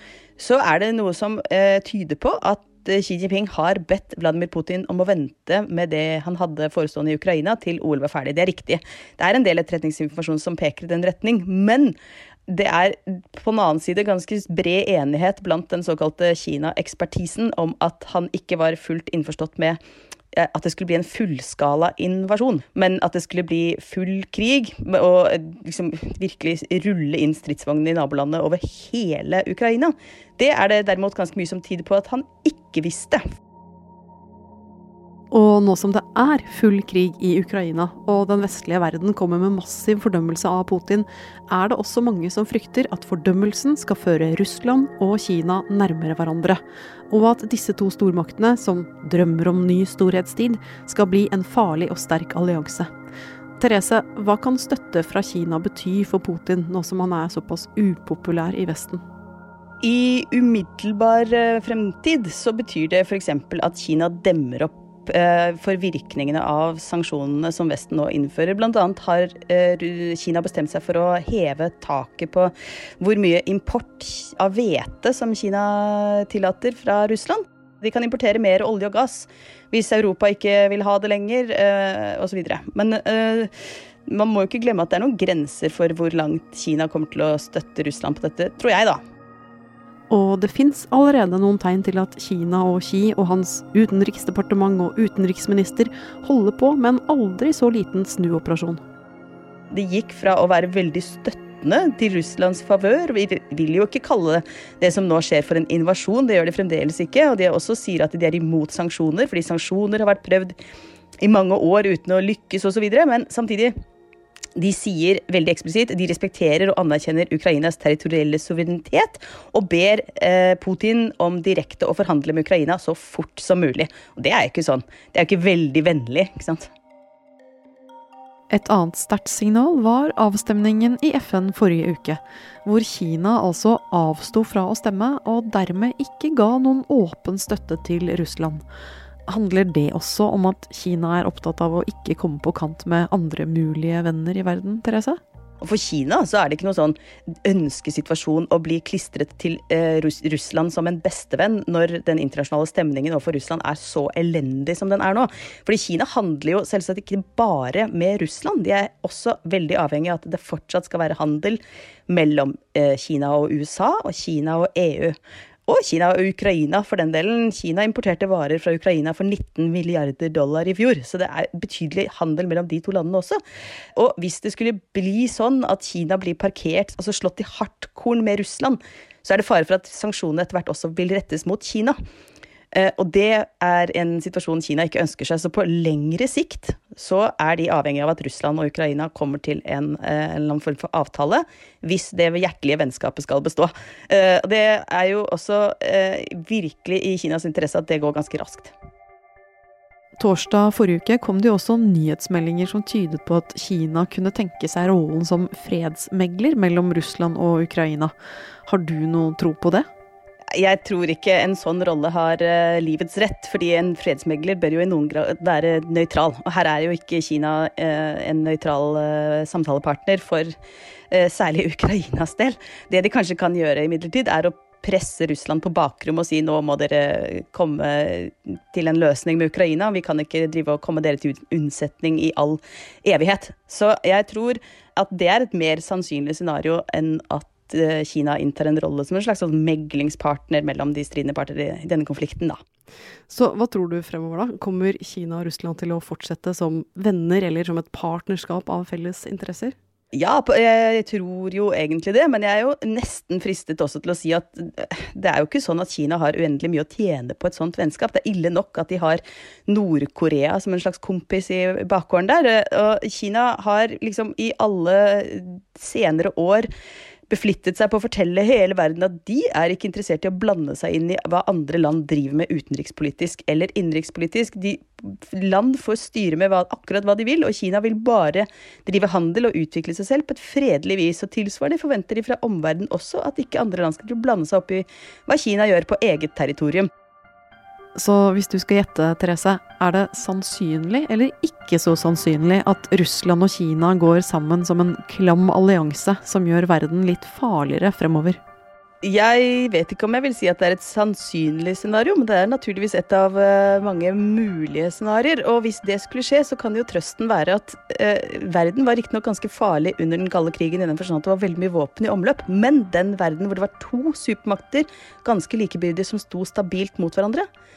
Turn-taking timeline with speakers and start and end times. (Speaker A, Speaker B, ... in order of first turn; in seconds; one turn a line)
Speaker A: 0.4-11.9
Speaker A: 12.5-19.8
Speaker A: 20.4-33.2
Speaker B: 35.3-52.9
Speaker B: 53.6-59.0
Speaker A: 59.8-83.5
Speaker A: 84.1-89.0
Speaker B: 90.1-98.8
Speaker A: 99.7-110.5
Speaker A: 111.2-113.7
Speaker A: 114.5-126.7
Speaker B: 128.5-138.6
Speaker B: 139.3-145.2
Speaker A: 145.6-165.2
Speaker A: 165.7-173.4
Speaker A: 174.0-181.9
Speaker A: 182.7-198.7
Speaker B: 200.2-208.1
Speaker B: 208.7-209.9
Speaker A: 210.5-220.5
Speaker A: 221.1-242.6
Speaker B: 243.3-249.8
Speaker A: 250.1-266.7
Speaker A: 267.3-286.9
Speaker B: 288.0-298.4
Speaker A: 299.0-317.4